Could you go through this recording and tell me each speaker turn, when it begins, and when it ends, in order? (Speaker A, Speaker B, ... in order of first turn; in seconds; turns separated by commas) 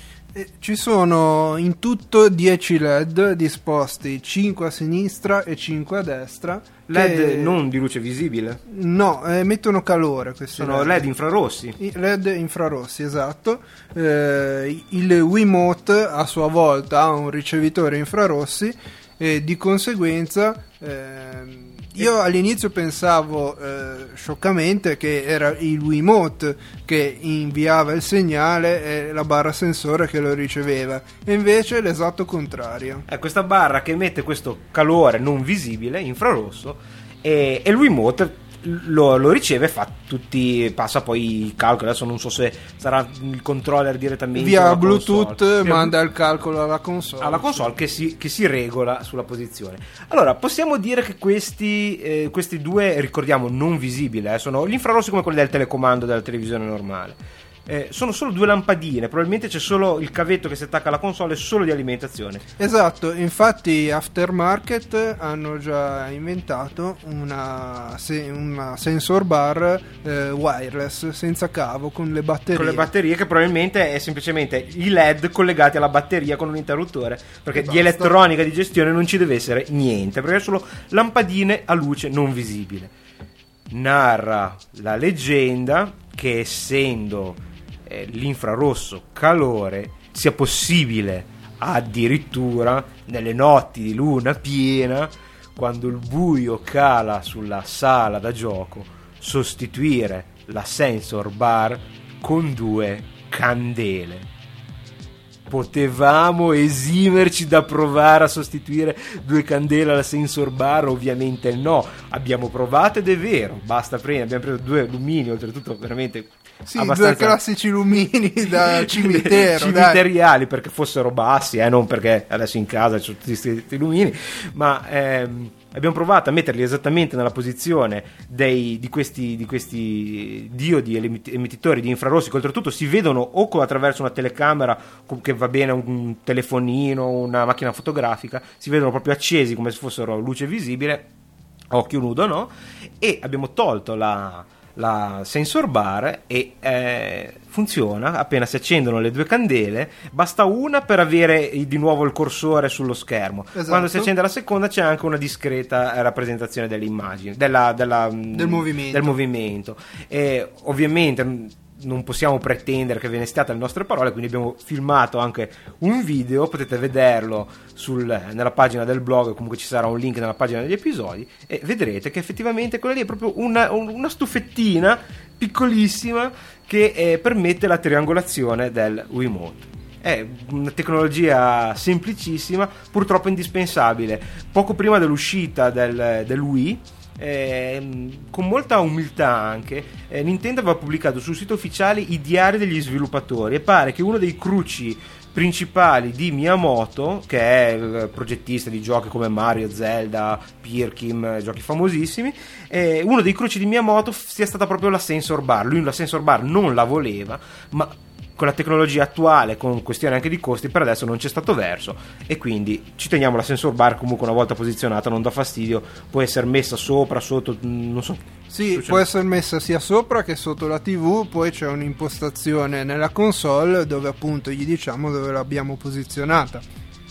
Speaker A: 0.3-7.6, Speaker B: 6.9-8.6, Speaker A: 8.7-11.1, Speaker B: 10.6-11.8, Speaker A: 11.8-33.1, Speaker B: 33.1-46.0, Speaker A: 44.4-47.7, Speaker B: 47.2-62.5, Speaker A: 62.6-72.9, Speaker B: 72.5-82.9, Speaker A: 77.6-78.1, Speaker B: 83.7-104.3, Speaker B: 105.5-117.4, Speaker A: 116.7-120.0, Speaker B: 118.5-141.1, Speaker B: 141.7-219.1, Speaker A: 153.5-154.1, Speaker A: 158.3-159.2, Speaker A: 218.5-226.6